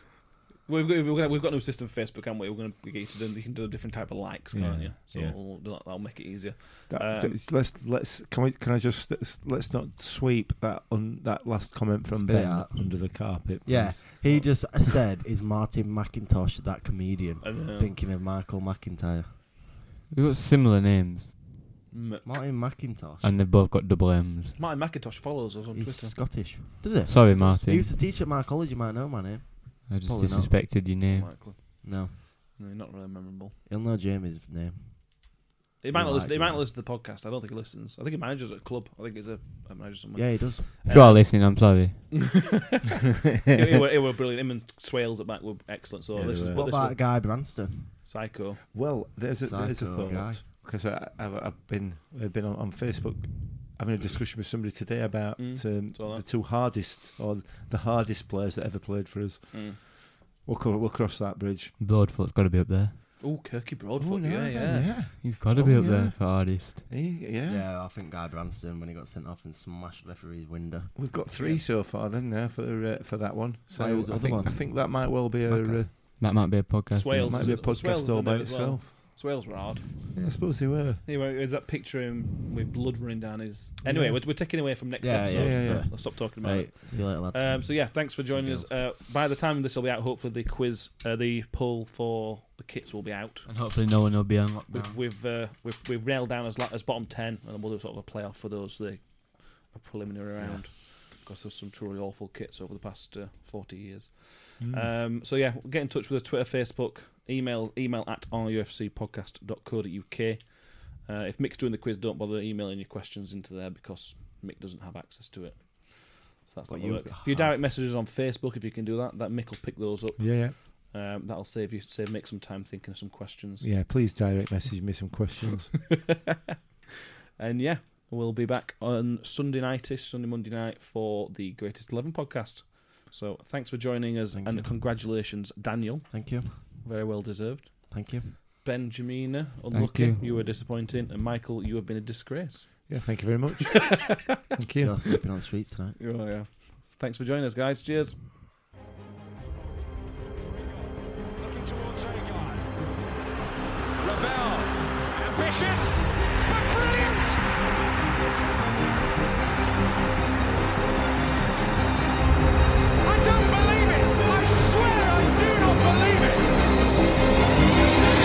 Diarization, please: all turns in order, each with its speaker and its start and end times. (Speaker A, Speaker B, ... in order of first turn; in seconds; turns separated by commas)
Speaker A: 0.7-7.4, Speaker B: 4.5-5.3, Speaker B: 6.9-14.3, Speaker C: 12.1-19.3, Speaker A: 14.2-14.6, Speaker A: 17.4-17.9, Speaker D: 20.1-21.5, Speaker A: 21.9-22.4, Speaker C: 22.2-23.4, Speaker D: 23.2-24.6, Speaker A: 24.6-26.2, Speaker C: 25.7-30.6, Speaker D: 27.1-27.9, Speaker D: 29.9-31.6, Speaker A: 31.0-33.5, Speaker C: 31.8-32.1, Speaker C: 33.6-36.7, Speaker A: 35.8-47.1, Speaker C: 40.1-40.9, Speaker D: 40.9-42.1, Speaker B: 46.1-46.6, Speaker C: 46.5-48.0, Speaker A: 48.0-48.6, Speaker B: 48.7-59.9, Speaker C: 49.4-50.5, Speaker A: 55.4-56.2, Speaker A: 59.5-59.8, Speaker B: 60.4-61.7, Speaker D: 61.8-63.0, Speaker A: 63.2-64.9, Speaker B: 64.0-66.2, Speaker D: 65.1-66.9, Speaker B: 66.9-67.7, Speaker C: 67.5-70.9, Speaker B: 70.9-75.9, Speaker A: 71.3-71.6, Speaker C: 73.7-74.6, Speaker D: 75.5-77.6, Speaker A: 76.9-80.1, Speaker B: 77.2-78.9, Speaker B: 80.1-81.0, Speaker A: 81.0-93.5, Speaker B: 83.8-84.2, Speaker C: 85.0-88.7, Speaker B: 85.3-85.9, Speaker D: 93.5-95.0, Speaker A: 94.7-123.7, Speaker C: 100.4-100.6, Speaker B: 104.6-104.9, Speaker C: 116.7-117.6, Speaker B: 120.2-120.5, Speaker B: 123.6-125.7, Speaker A: 125.9-126.5, Speaker A: 127.4-143.0, Speaker C: 134.3-134.8, Speaker C: 136.1-136.6, Speaker C: 137.9-138.4, Speaker D: 139.7-140.2, Speaker B: 142.9-143.9, Speaker A: 143.8-144.3, Speaker B: 144.6-145.0, Speaker C: 144.8-146.0, Speaker A: 145.9-148.2, Speaker E: 151.0-152.9, Speaker E: 154.0-157.4, Speaker E: 163.0-166.7